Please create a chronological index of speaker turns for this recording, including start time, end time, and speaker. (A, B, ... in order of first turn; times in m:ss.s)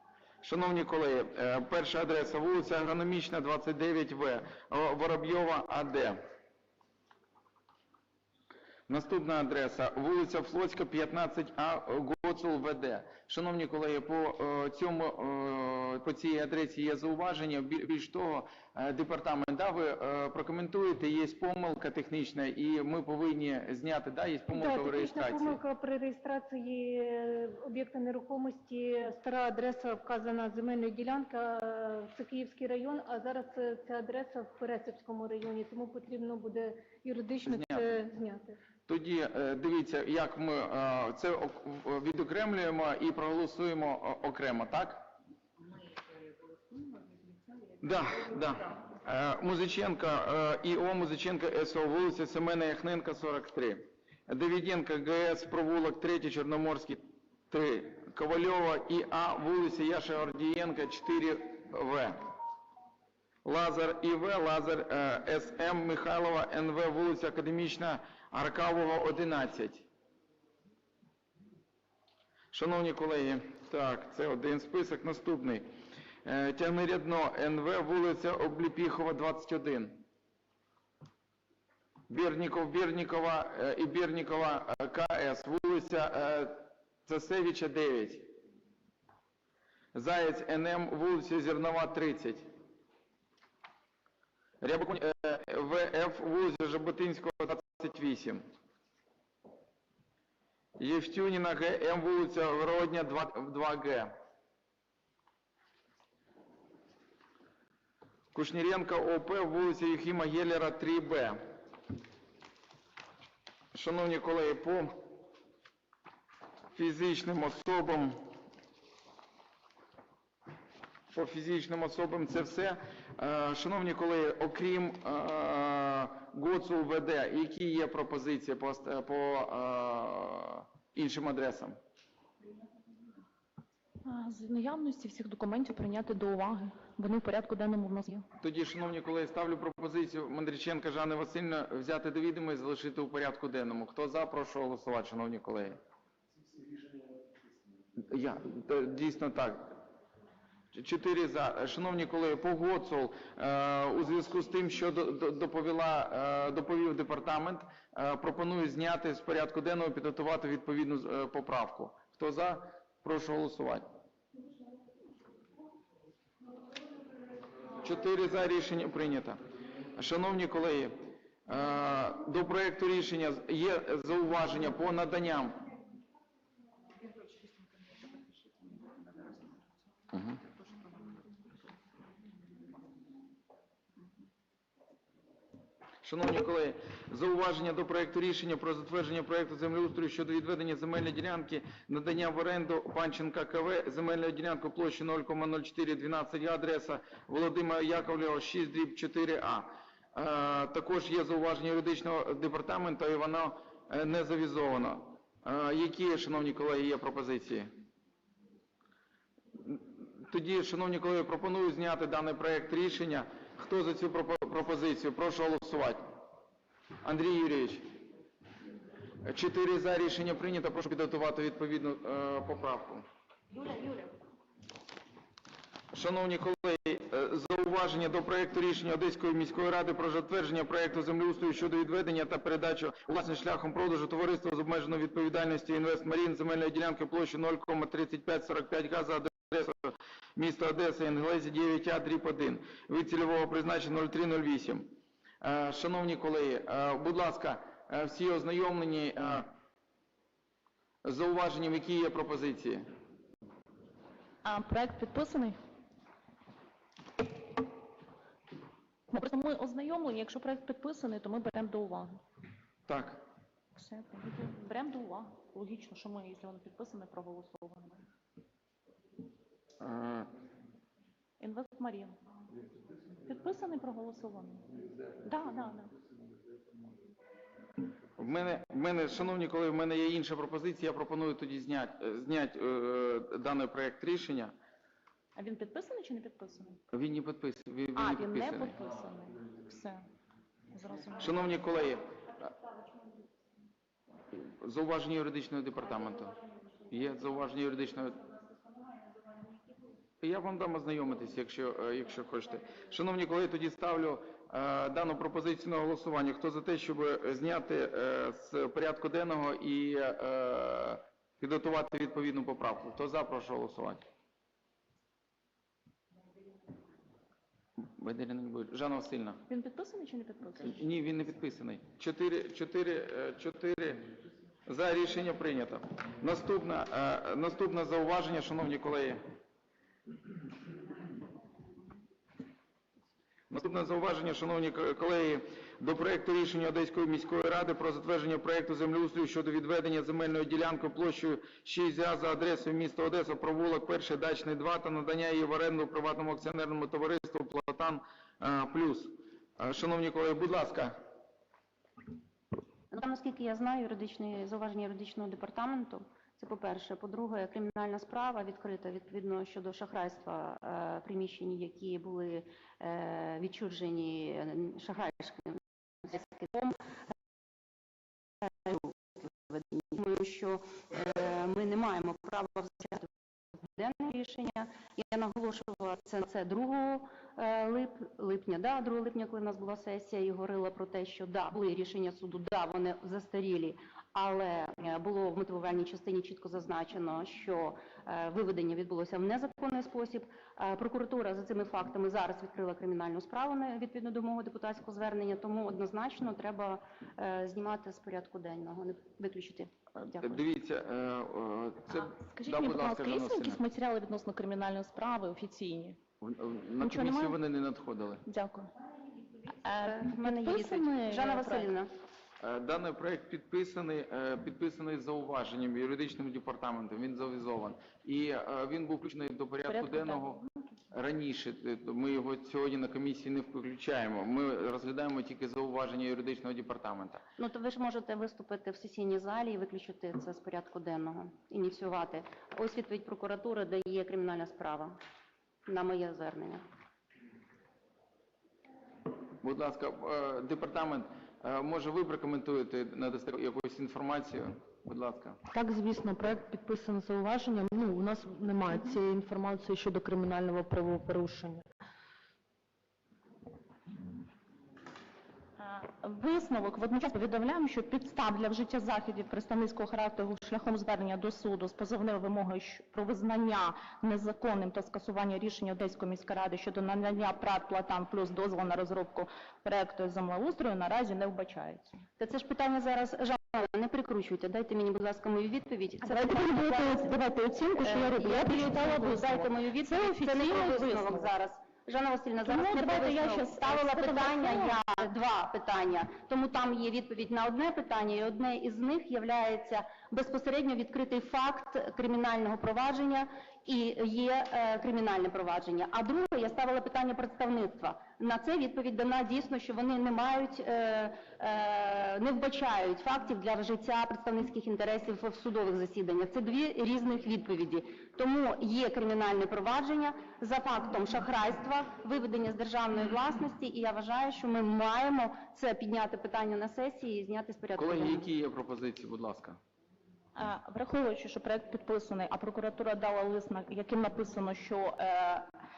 0:00.4-0:06.2 A
0:08.9-0:25.6 A
0:24.5-0:38.6 B
0:37.4-0:38.0 A
0:38.9-0:45.1 A
0:47.8-1:02.2 A
1:03.4-1:09.9 A
1:12.5-1:15.7 A
1:16.2-1:20.0 A
1:22.1-1:28.3 A
1:29.9-1:32.4 A
1:34.6-1:38.4 A
1:40.8-1:44.1 A
1:48.3-1:51.4 A
1:53.7-1:55.0 A
1:56.8-1:58.2 A
2:01.1-2:11.8 A
2:14.0-2:18.3 C
2:18.4-2:25.8 A
2:28.0-2:29.8 A
2:30.7-2:43.8 A
2:47.8-2:49.4 A
2:50.0-2:55.6 A
3:06.0-3:27.7 A
3:29.6-3:36.0 A
3:37.0-3:37.9 A
3:39.2-3:43.0 A
3:45.9-4:04.9 A
4:05.4-4:09.5 A
4:11.0-4:12.8 A
4:14.4-4:15.6 C
4:19.1-4:22.2 C
4:22.9-4:23.2 A
4:23.8-4:28.0 C
4:29.8-4:30.3 A
4:31.4-4:32.2 C
4:33.2-4:35.9 C
4:38.2-4:44.5 A
4:45.4-4:46.8 C
4:46.9-4:48.8 A
4:47.9-4:50.0 C
4:50.7-4:51.4 C
4:51.2-4:52.1 A
4:54.3-4:56.4 A
4:56.9-4:58.2 A
5:00.2-5:14.0 A
5:17.8-5:19.4 A
5:19.5-5:20.8 C
5:20.7-5:24.1 A
5:24.7-5:29.2 A
5:33.5-5:50.9 A
5:52.9-6:07.0 D
6:08.4-6:13.1 D
6:13.6-6:40.4 D
6:40.0-6:43.6 A
6:42.0-6:46.0 C
6:46.2-6:48.2 A
6:46.8-6:47.4 C
6:48.2-6:48.7 C
6:49.6-6:51.7 C
6:49.8-6:51.9 D
6:52.4-7:00.4 A
6:59.7-7:00.6 C
7:00.9-7:07.2 A
7:07.4-7:15.0 D
7:15.7-7:16.6 D
7:19.4-7:25.4 A
7:25.5-7:31.6 E
7:35.6-7:51.9 C
7:52.2-7:57.1 D
7:56.0-8:01.3 C
7:57.8-8:38.3 D
8:02.4-8:05.1 C
8:37.8-8:39.6 A
8:40.4-8:45.5 C